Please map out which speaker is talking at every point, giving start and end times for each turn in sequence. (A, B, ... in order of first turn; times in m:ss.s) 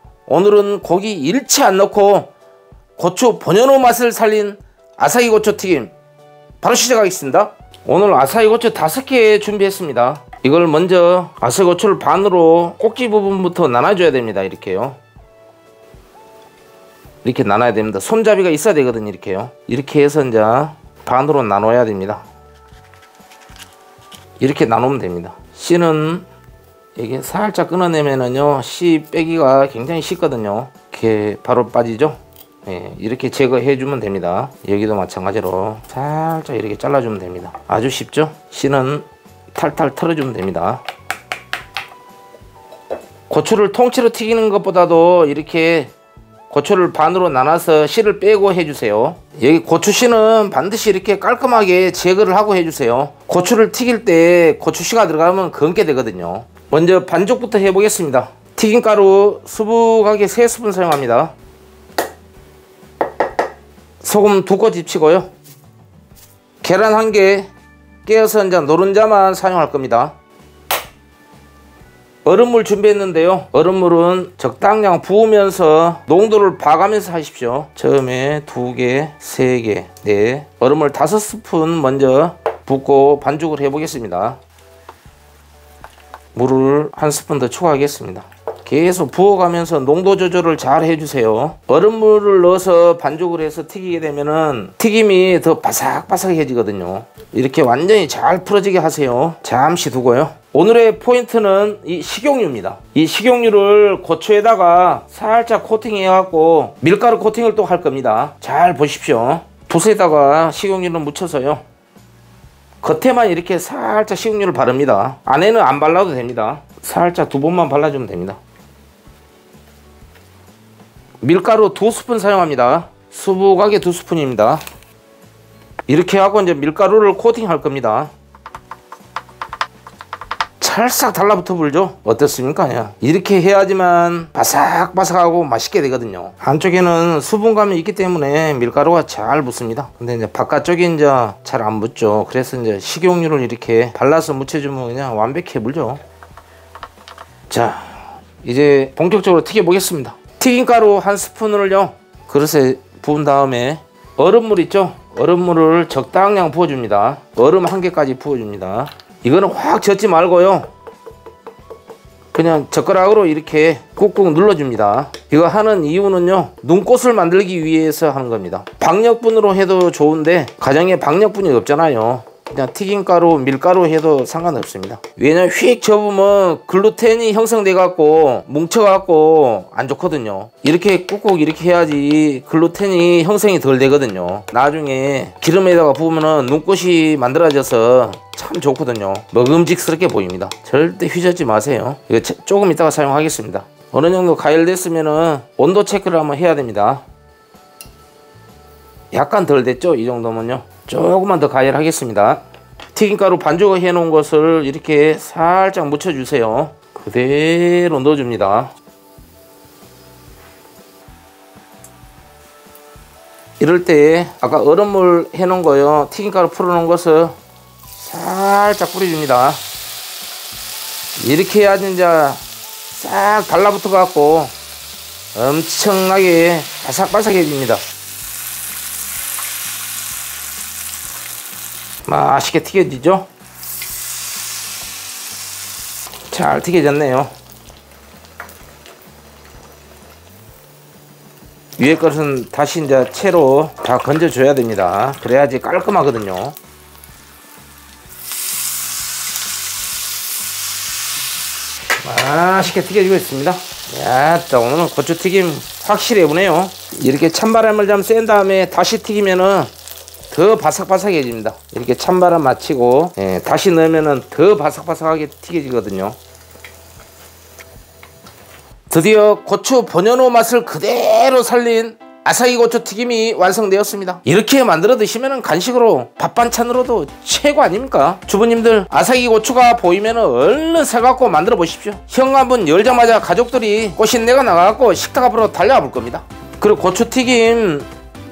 0:00.3-0:02.3 A
0:03.0-0:05.9 A
0:06.6-0:15.0 A
0:17.2-0:22.2 A
0:24.4-0:26.2 A
0:27.0-0:40.8 A
0:43.3-0:45.9 A
0:46.5-1:01.3 A
1:04.0-1:05.3 A
1:06.6-1:07.5 A
1:08.0-1:10.1 A
1:12.2-1:24.4 A
1:26.3-1:51.6 A
1:52.8-1:58.4 A
2:01.2-2:04.6 A
2:05.9-2:08.1 A
2:10.6-2:26.0 A
2:27.5-2:40.7 A
2:42.3-3:17.0 A
3:19.1-3:22.4 A
3:22.9-3:28.7 A
3:33.6-3:37.4 A
3:38.0-3:39.6 A
3:41.2-3:42.4 A
3:42.9-3:44.5 A
3:45.3-3:47.8 A
3:52.0-3:53.3 A
3:56.3-3:57.3 A
4:01.8-4:06.6 A
4:12.0-4:19.7 A
4:20.3-4:26.2 A
4:28.9-4:47.9 A